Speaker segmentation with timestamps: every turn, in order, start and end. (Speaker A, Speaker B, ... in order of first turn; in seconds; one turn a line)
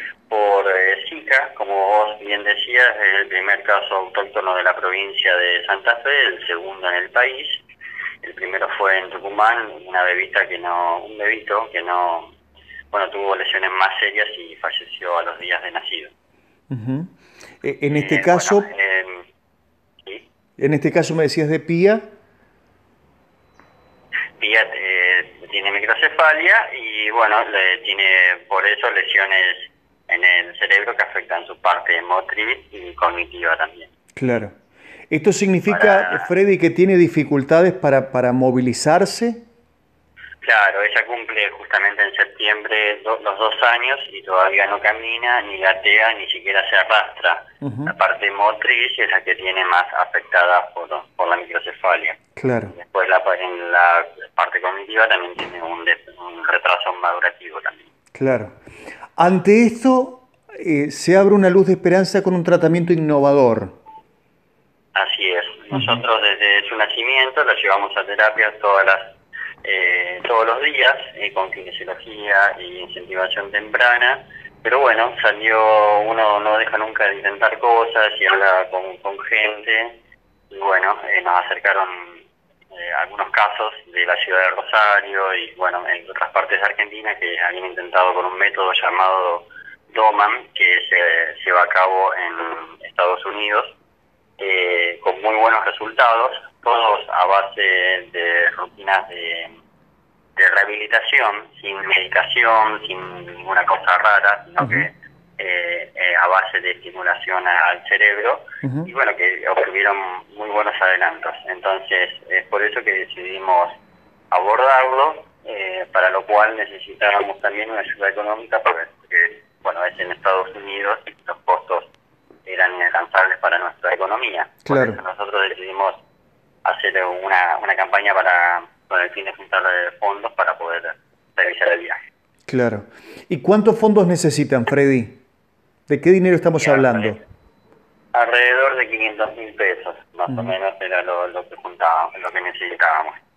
Speaker A: 0.3-7.6
Speaker A: 8.2-12.3
Speaker A: 12.9-16.1
Speaker B: 16.7-17.1
Speaker B: 17.6-18.7
Speaker A: 17.9-19.2
Speaker B: 20.6-22.0
Speaker A: 24.4-33.9
Speaker B: 34.2-34.5
Speaker B: 35.1-39.4
Speaker A: 35.7-36.3
Speaker A: 40.4-52.2
Speaker B: 47.6-47.9
Speaker B: 52.4-52.7
Speaker A: 52.7-57.9
Speaker B: 58.2-58.5
Speaker B: 59.2-63.8
Speaker A: 65.0-69.1
Speaker B: 65.7-66.0
Speaker A: 69.6-80.0
Speaker A: 80.5-93.7
Speaker A: 94.4-99.6
Speaker A: 100.4-113.8
Speaker B: 104.6-104.9
Speaker B: 108.6-108.9
Speaker A: 114.3-121.9
Speaker A: 122.5-126.0
Speaker B: 124.7-125.0
Speaker A: 126.6-132.0
Speaker B: 132.5-135.2
Speaker B: 135.9-137.2
Speaker A: 136.6-137.2
Speaker A: 138.1-143.2